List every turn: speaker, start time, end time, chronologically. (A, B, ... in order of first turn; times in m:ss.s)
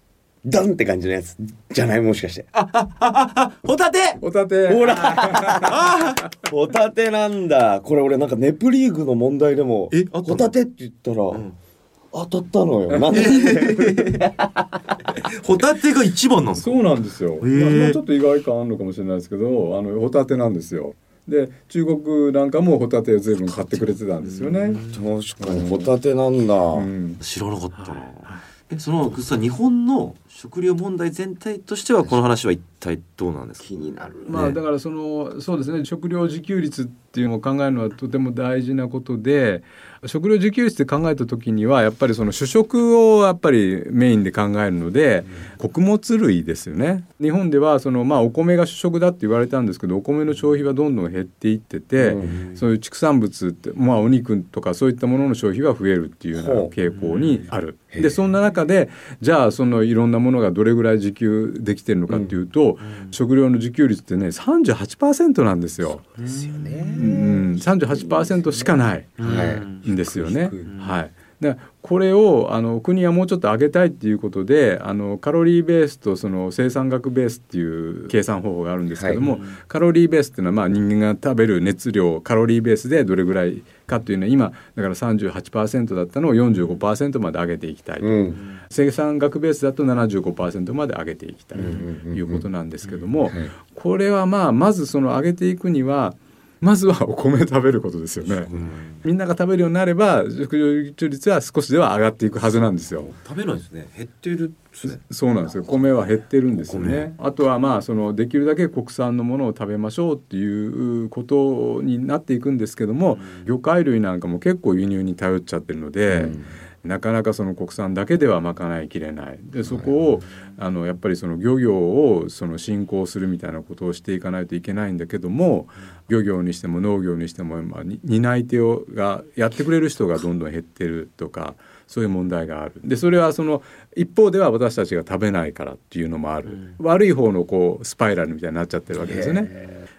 0:00.4-0:02.5 A
0:02.5-0:04.2 B
0:04.2-0:05.7 C
0:04.7-0:11.4 A
0:05.6-0:06.2 B
0:09.9-0:10.5 B
0:12.1-0:14.6 A
0:13.1-0:14.3 B
0:15.2-0:16.8 B
0:16.6-0:24.8 C
0:17.4-0:18.0 B
0:23.4-0:25.0 B
0:24.9-0:26.9 A
0:26.7-0:27.2 C
0:27.2-0:33.7 B
0:27.8-0:28.4 C
0:33.6-0:34.5 A
0:34.3-1:06.1 C
0:34.3-0:34.6 B
0:52.0-0:52.5 A
0:52.3-0:52.5 B
0:56.4-0:56.7 A
0:56.9-0:57.5 B
0:57.9-0:58.2 A
1:02.8-1:03.1 B
1:06.2-1:07.0 B
1:06.2-1:10.7 A
1:07.0-1:43.1 C
1:09.2-1:09.8 B
1:10.7-1:11.0 B
1:19.2-1:19.6 B
1:28.0-1:28.4 A
1:31.6-1:32.4 A
1:33.2-1:33.5 A
1:38.3-1:39.0 B
1:43.0-1:45.0 B
1:44.8-2:19.5 C
1:46.5-1:47.1 B
1:56.1-1:56.5 A
1:59.6-1:59.9 A
2:19.0-2:19.7 A